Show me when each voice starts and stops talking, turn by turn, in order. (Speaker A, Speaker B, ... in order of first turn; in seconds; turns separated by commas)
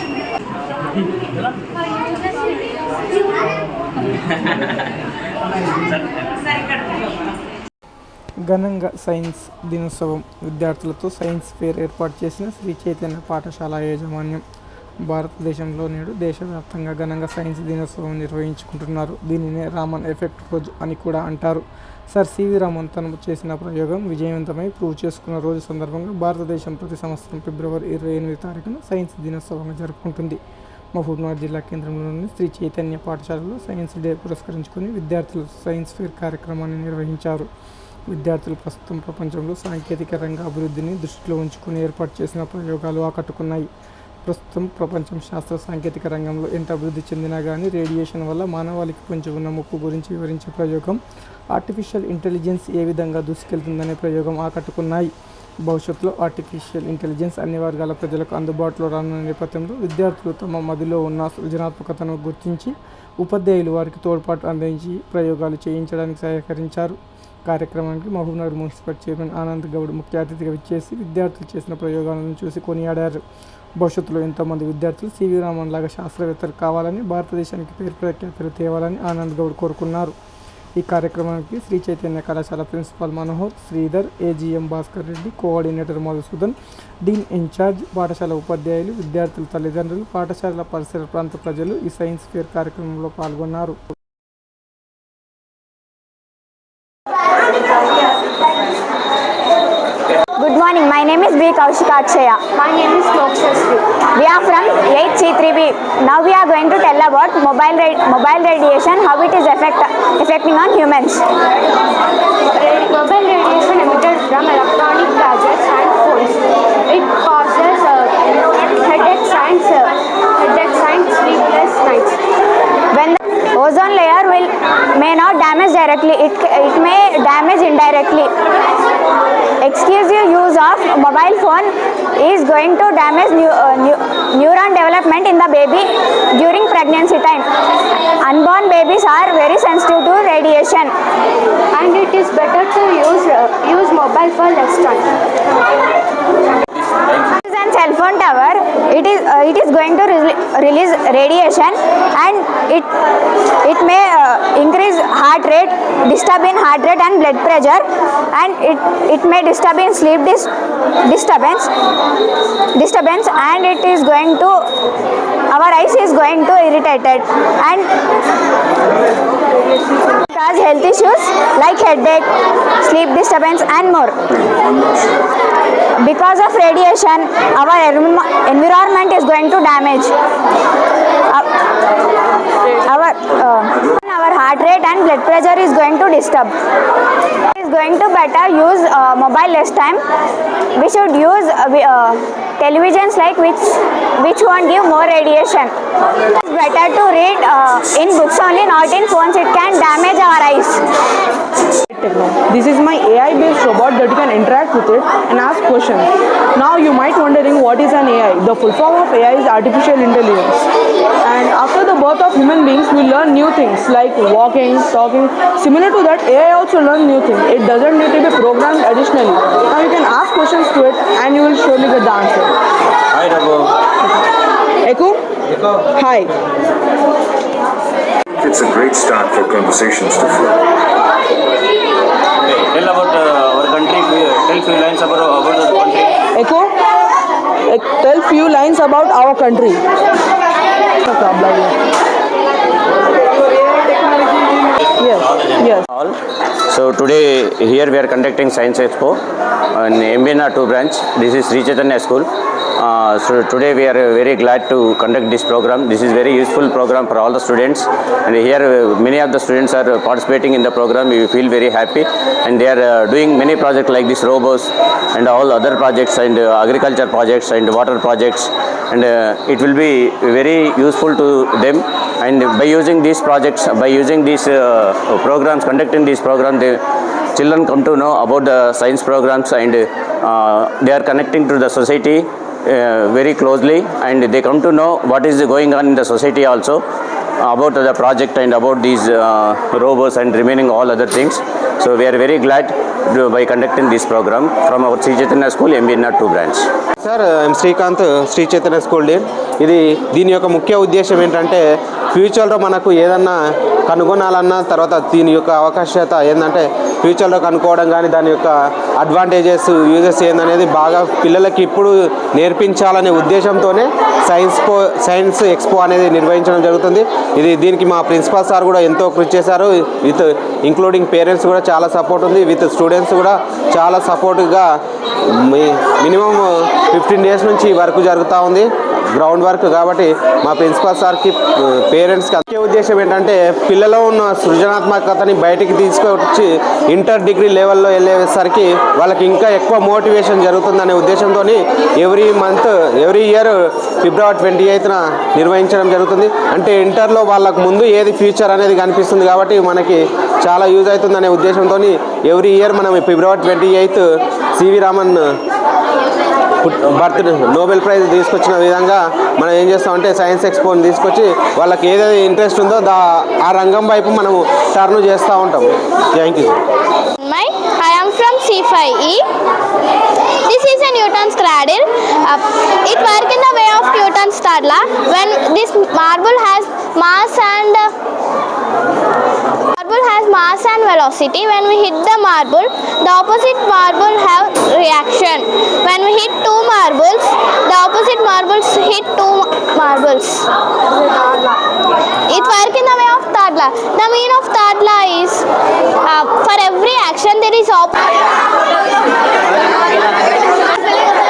Speaker A: 8.5-14.4, Speaker A: 15.1-30.4, Speaker A: 30.9-37.5, Speaker A: 38.1-43.7, Speaker A: 44.3-51.0, Speaker A: 51.5-55.1, Speaker A: 55.6-73.2, Speaker A: 73.8-80.2, Speaker A: 80.8-93.8, Speaker B: 100.4-102.4, Speaker C: 102.6-103.8, Speaker B: 104.2-111.2, Speaker C: 112.5-122.2, Speaker B: 122.9-128.3, Speaker B: 129.6-137.5, Speaker B: 138.2-140.9, Speaker C: 141.7-145.1, Speaker D: 146.8-147.3, Speaker B: 147.4-152.9, Speaker B: 153.6-160.5, Speaker B: 161.1-161.7, Speaker B: 162.8-164.7, Speaker B: 165.5-167.9, Speaker B: 170.3-172.3, Speaker B: 172.8-174.2, Speaker B: 176.0-180.1, Speaker B: 182.8-186.5, Speaker B: 187.5-190.0, Speaker B: 190.8-195.7, Speaker B: 196.4-200.8, Speaker E: 201.9-210.6, Speaker E: 211.2-222.5, Speaker D: 223.1-223.7, Speaker E: 224.8-225.2, Speaker E: 225.9-226.3, Speaker F: 228.4-230.5, Speaker D: 232.4-236.2, Speaker E: 236.3-236.7, Speaker E: 237.7-239.8, Speaker E: 241.0-241.8, Speaker E: 243.8-244.4, Speaker D: 244.9-246.2, Speaker E: 245.0-245.8, Speaker D: 246.7-249.2, Speaker D: 249.7-276.8, Speaker D: 277.4-286.8, Speaker D: 287.4-296.7, Speaker G: 297.0-303.4, Speaker G: 303.9-324.7, Speaker G: 325.4-354.1, Speaker G: 354.6-355.2, Speaker G: 356.6-366.6, Speaker H: 367.2-369.2, Speaker H: 370.5-377.9, Speaker H: 379.8-390.4, Speaker H: 392.3-395.4, Speaker H: 396.1-398.1